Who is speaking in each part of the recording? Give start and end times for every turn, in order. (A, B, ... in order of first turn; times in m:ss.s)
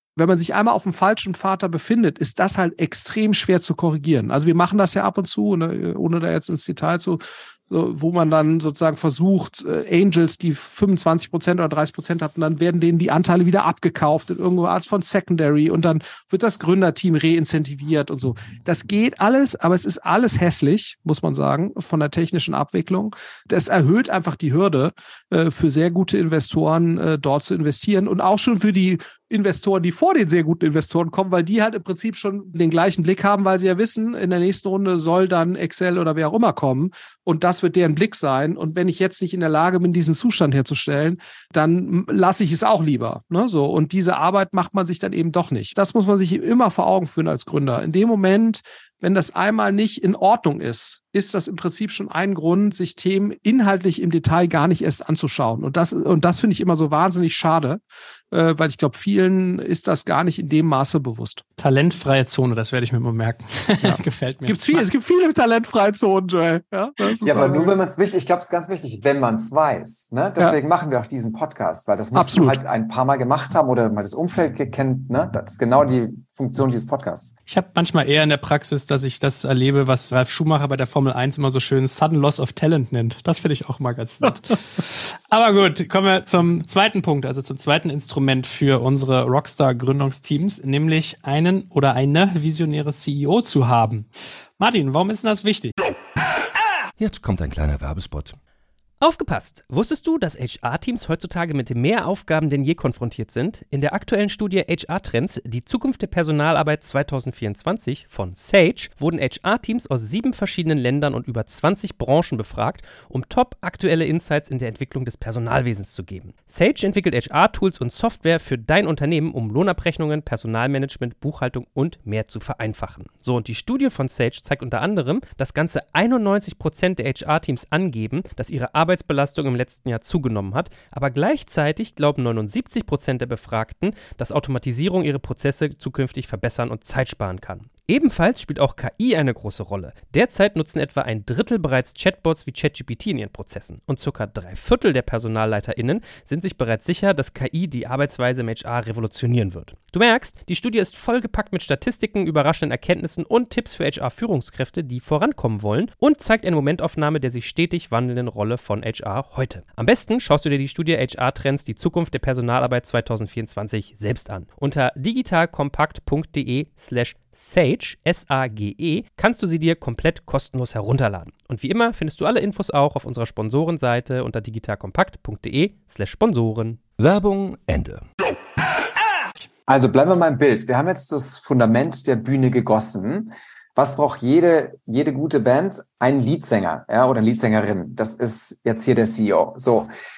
0:00.2-1:01.4 A
1:01.6-1:04.8 B
1:03.8-1:07.7 A
1:07.2-1:17.3 C
1:12.1-1:12.6 A
1:17.5-1:34.1 B
1:34.6-1:35.7 B
1:37.0-1:38.4 D
1:39.0-2:56.8 E
2:57.0-2:58.1 D
2:59.7-3:09.9 C